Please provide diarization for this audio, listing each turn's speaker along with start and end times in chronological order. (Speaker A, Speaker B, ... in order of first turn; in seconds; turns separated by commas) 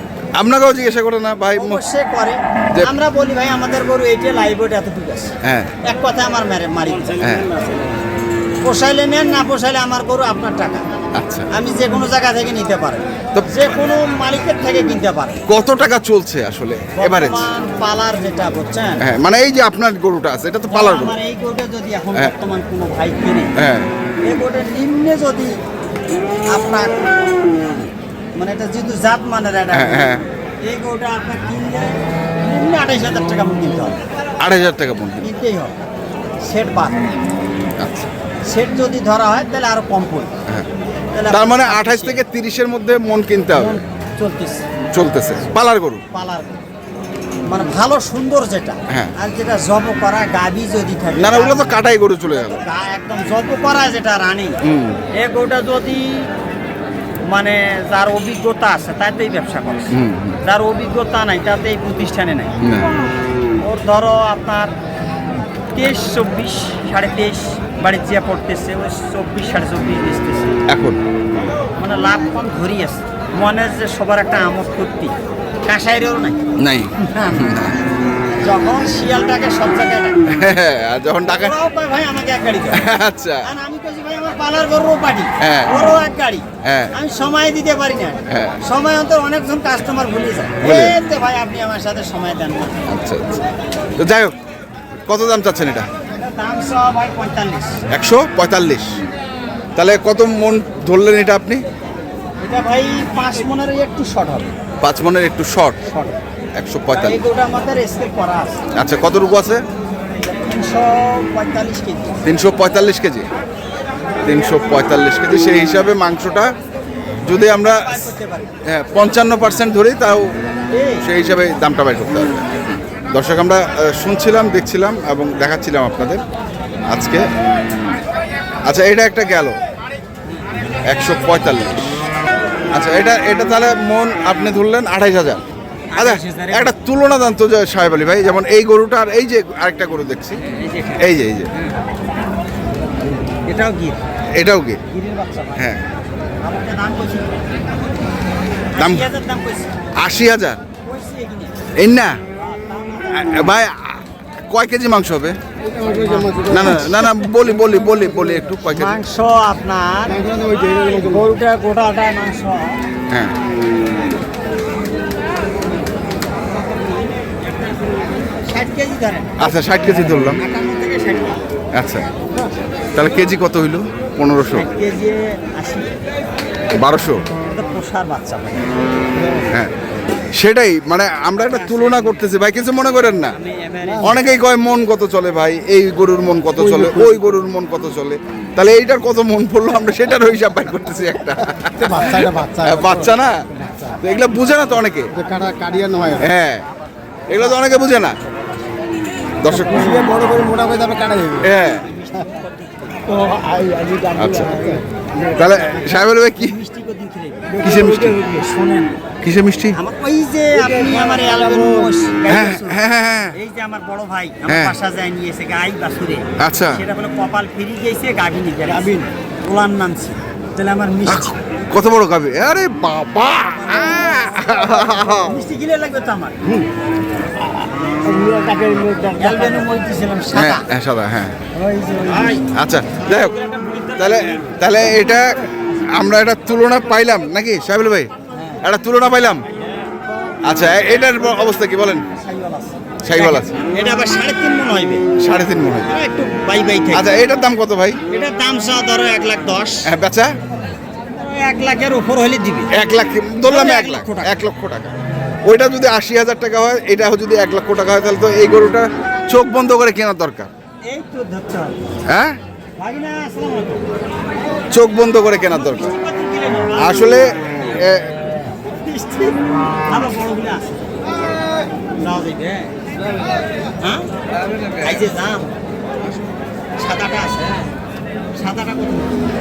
Speaker A: 0.3-1.8, Speaker B: 1.5-7.3, Speaker A: 5.4-5.7, Speaker A: 7.2-7.5, Speaker C: 7.2-8.0, Speaker B: 8.6-10.8, Speaker A: 11.1-11.4, Speaker B: 11.5-15.4, Speaker A: 13.3-13.8, Speaker A: 15.5-17.5, Speaker B: 16.9-19.0, Speaker A: 19.0-21.1, Speaker B: 20.7-23.5, Speaker A: 23.6-23.9, Speaker B: 24.2-25.5, Speaker B: 26.5-27.8, Speaker B: 28.4-30.1, Speaker A: 29.7-30.2, Speaker B: 30.6-34.0, Speaker A: 34.4-35.3, Speaker B: 35.2-35.7, Speaker B: 36.4-37.1, Speaker A: 37.8-38.1, Speaker B: 38.5-40.3, Speaker B: 41.1-42.2, Speaker A: 41.3-43.8, Speaker B: 43.5-44.6, Speaker A: 44.9-46.0, Speaker B: 45.3-45.6, Speaker B: 46.1-46.6, Speaker B: 47.5-51.8, Speaker A: 51.1-52.6, Speaker B: 52.5-54.6, Speaker A: 54.6-55.0, Speaker B: 55.1-56.3, Speaker B: 57.3-59.9, Speaker A: 59.9-60.4, Speaker B: 60.4-62.5, Speaker A: 62.6-62.9, Speaker B: 63.6-64.7, Speaker B: 65.7-70.6, Speaker A: 70.7-71.0, Speaker B: 71.8-75.2, Speaker B: 75.7-76.4, Speaker A: 76.6-77.8, Speaker B: 77.0-77.6, Speaker B: 78.4-80.2, Speaker A: 80.3-81.5, Speaker B: 81.3-82.8, Speaker A: 82.7-83.4, Speaker B: 83.4-92.9, Speaker A: 85.4-85.7, Speaker A: 86.6-86.9, Speaker A: 88.3-88.6, Speaker A: 90.6-91.0, Speaker A: 92.9-93.4, Speaker A: 94.0-94.3, Speaker A: 95.1-95.9, Speaker B: 96.1-97.8, Speaker A: 97.9-98.9, Speaker A: 99.8-101.6, Speaker B: 102.4-104.5, Speaker A: 104.8-105.8, Speaker B: 105.9-106.2, Speaker A: 106.5-107.2, Speaker B: 106.9-108.6, Speaker A: 108.8-109.6, Speaker B: 110.0-112.2, Speaker A: 112.2-113.3, Speaker A: 114.2-116.5, Speaker A: 117.2-118.0, Speaker B: 117.6-118.5, Speaker A: 118.7-120.3, Speaker B: 120.7-121.0, Speaker A: 121.0-122.5, Speaker A: 123.1-126.2, Speaker A: 126.9-127.2, Speaker A: 128.6-129.6, Speaker A: 130.9-131.9, Speaker A: 132.7-135.4, Speaker B: 135.9-136.7, Speaker A: 135.9-140.4, Speaker B: 140.3-141.8, Speaker A: 141.0-141.5, Speaker B: 143.4-144.0, Speaker A: 144.3-144.8, Speaker B: 144.9-145.7, Speaker A: 145.6-145.8, Speaker B: 146.4-147.3, Speaker B: 148.7-149.9, Speaker A: 148.8-149.1, Speaker A: 149.9-150.6, Speaker B: 150.8-151.6, Speaker A: 151.8-152.2, Speaker B: 152.3-153.6, Speaker A: 153.1-155.4, Speaker C: 155.7-156.7, Speaker B: 155.8-156.8, Speaker A: 156.5-159.0, Speaker B: 158.7-162.8, Speaker C: 160.2-161.2, Speaker A: 163.1-163.3, Speaker B: 168.3-169.5, Speaker A: 169.4-170.4, Speaker B: 170.3-171.4, Speaker A: 171.7-172.1, Speaker A: 172.9-174.7, Speaker B: 174.5-176.1, Speaker A: 176.7-177.2, Speaker B: 177.4-178.8, Speaker C: 179.2-179.5, Speaker A: 180.3-183.3, Speaker B: 181.5-182.0, Speaker B: 183.3-184.2, Speaker A: 184.0-193.4, Speaker C: 186.7-187.2, Speaker C: 191.8-192.9, Speaker A: 194.0-195.1, Speaker C: 195.2-196.2, Speaker A: 196.2-196.6, Speaker A: 197.3-198.2, Speaker A: 199.4-199.9, Speaker C: 199.5-201.5, Speaker A: 201.4-201.8, Speaker B: 201.7-203.2, Speaker C: 203.1-205.4, Speaker A: 204.2-204.7, Speaker A: 205.3-206.6, Speaker B: 205.3-207.7, Speaker C: 207.5-208.9, Speaker A: 207.6-208.2, Speaker A: 209.2-209.8, Speaker B: 209.7-212.8, Speaker C: 210.8-211.8, Speaker A: 212.3-213.3, Speaker B: 213.3-221.4, Speaker A: 214.5-214.7, Speaker A: 216.4-216.8, Speaker C: 218.8-219.1, Speaker A: 221.1-225.4, Speaker B: 223.4-226.4, Speaker C: 227.4-229.6, Speaker B: 229.2-230.6, Speaker A: 230.3-231.3, Speaker C: 231.7-232.3, Speaker B: 231.7-232.5, Speaker A: 232.5-233.3, Speaker B: 233.0-234.5, Speaker A: 234.0-235.4, Speaker A: 235.9-238.1, Speaker B: 238.3-238.6, Speaker A: 238.6-239.4, Speaker A: 240.4-242.0, Speaker B: 242.1-245.0, Speaker A: 243.0-243.5, Speaker A: 245.2-245.9, Speaker B: 245.8-247.1, Speaker A: 246.9-248.0, Speaker B: 248.1-249.9, Speaker A: 249.9-250.3, Speaker B: 251.1-252.7, Speaker A: 252.7-254.9, Speaker B: 253.4-254.4, Speaker A: 255.4-260.5, Speaker B: 260.8-261.8, Speaker A: 262.1-262.4, Speaker B: 262.8-263.9, Speaker A: 264.7-265.9, Speaker B: 265.5-267.3, Speaker A: 266.8-268.3, Speaker B: 268.5-271.0, Speaker B: 272.0-272.7, Speaker B: 273.8-274.1, Speaker B: 274.8-275.5, Speaker B: 276.8-277.6, Speaker B: 278.3-279.3